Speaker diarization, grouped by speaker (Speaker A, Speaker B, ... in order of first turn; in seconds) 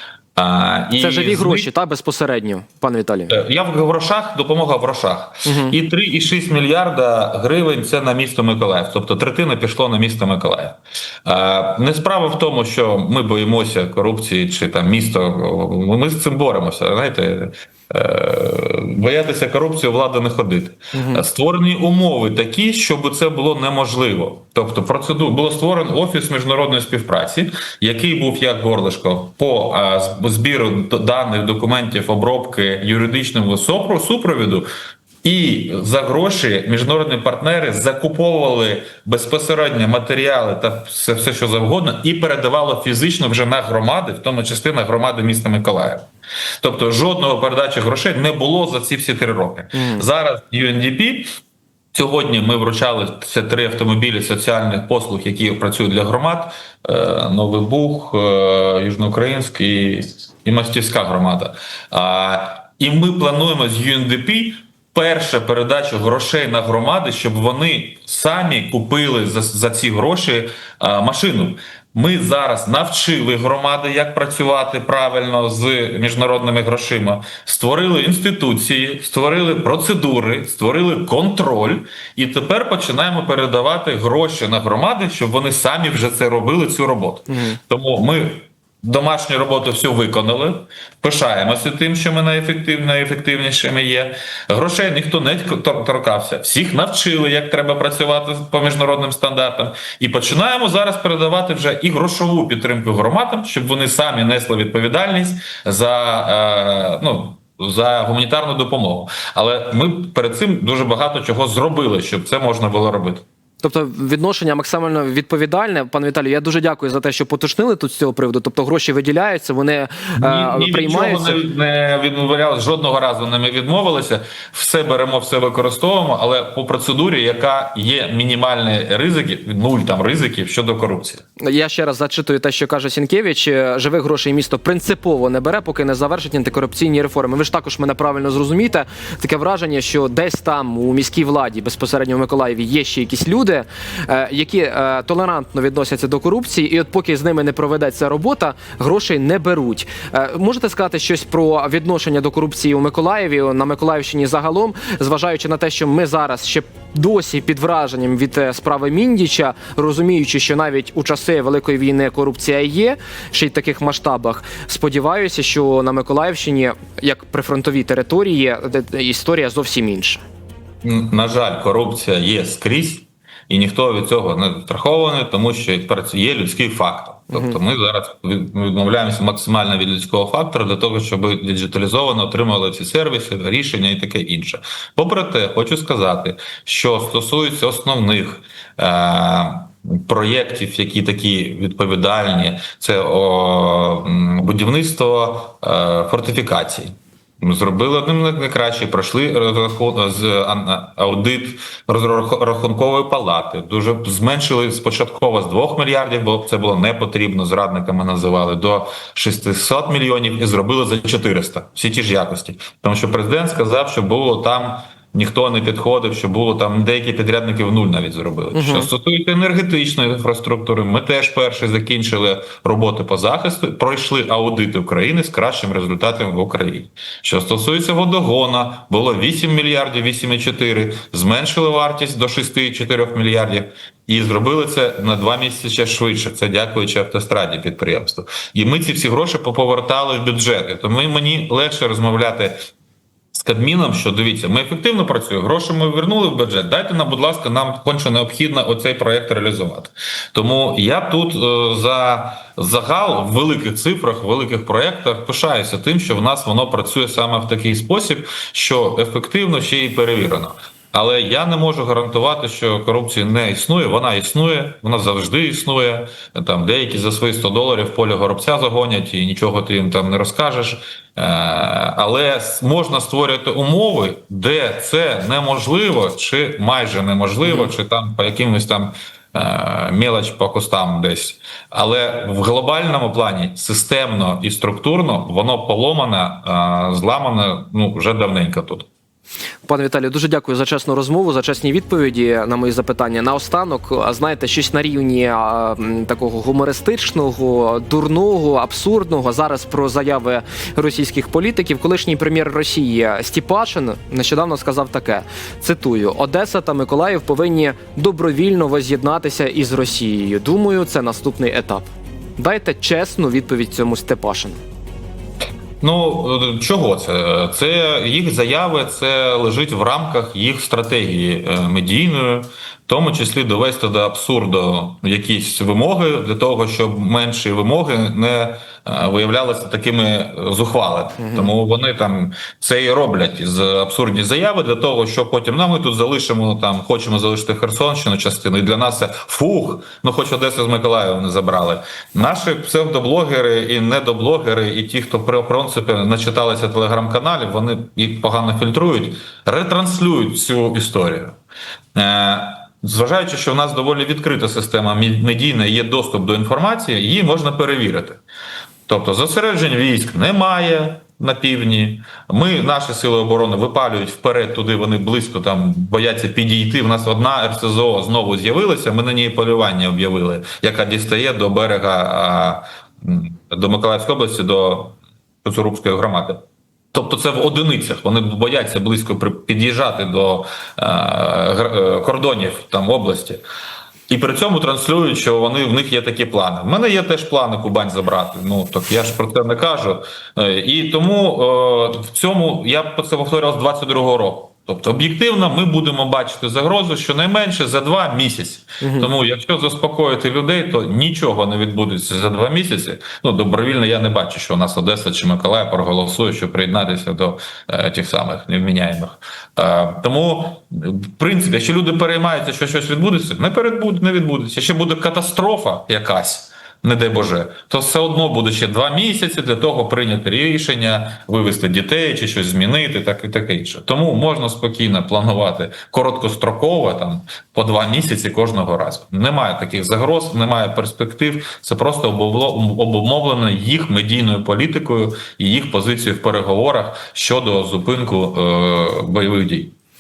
Speaker A: 0.4-1.7, 3.3-34.7, 35.2-46.1, 46.6-51.3, 51.9-113.2, 120.2-131.2, 170.8-242.6, 243.3-288.9, 315.8-351.4, 352.0-358.2, 358.9-383.4, 384.1-439.7
Speaker B: 1.0-3.3, 5.5-5.8, 20.9-21.2, 49.7-50.1, 87.3-87.6, 113.6-121.4, 131.4-170.2, 218.5-218.9, 277.4-277.7, 289.7-314.6, 331.2-331.5, 398.8-399.1